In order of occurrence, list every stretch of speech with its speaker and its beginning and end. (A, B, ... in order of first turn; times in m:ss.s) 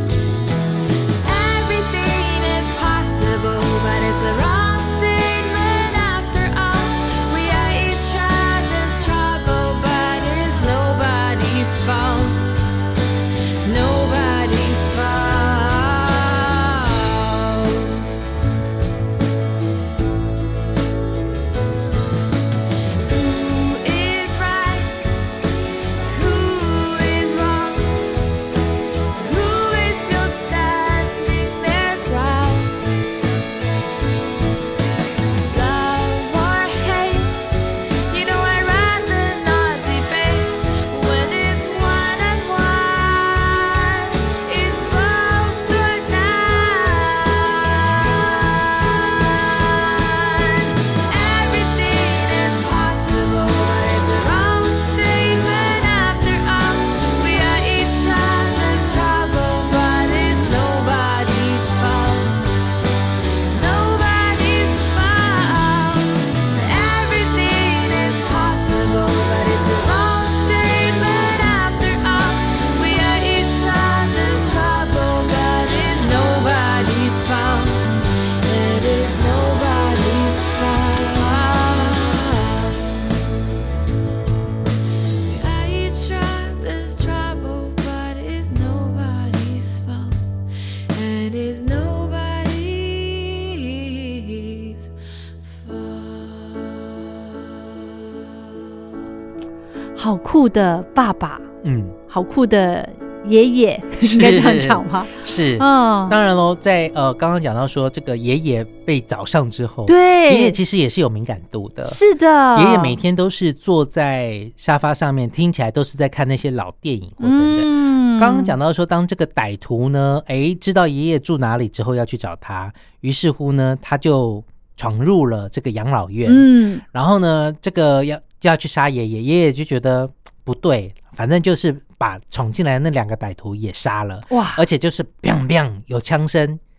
0:01.2-0:12.7 A
0:13.6-0:18.0 A
0:23.0-0:25.0 A
0:26.0-0:28.1 A
0:29.2-0:33.4 A
0:35.5-0:37.5 A
0:38.0-1:02.5 A
1:03.5-1:23.1 A
1:25.2-1:30.2 A
1:30.9-1:34.9 A
1:35.4-1:38.4 A
1:40.0-1:41.5 B
1:41.6-1:42.0 C
1:42.1-1:46.2 B
1:44.0-1:52.0 C
1:49.8-1:50.6 B
1:51.8-1:52.9 B
1:52.5-2:16.6 C
1:57.2-1:58.5 B
2:06.2-2:06.8 B
2:14.3-2:14.6 B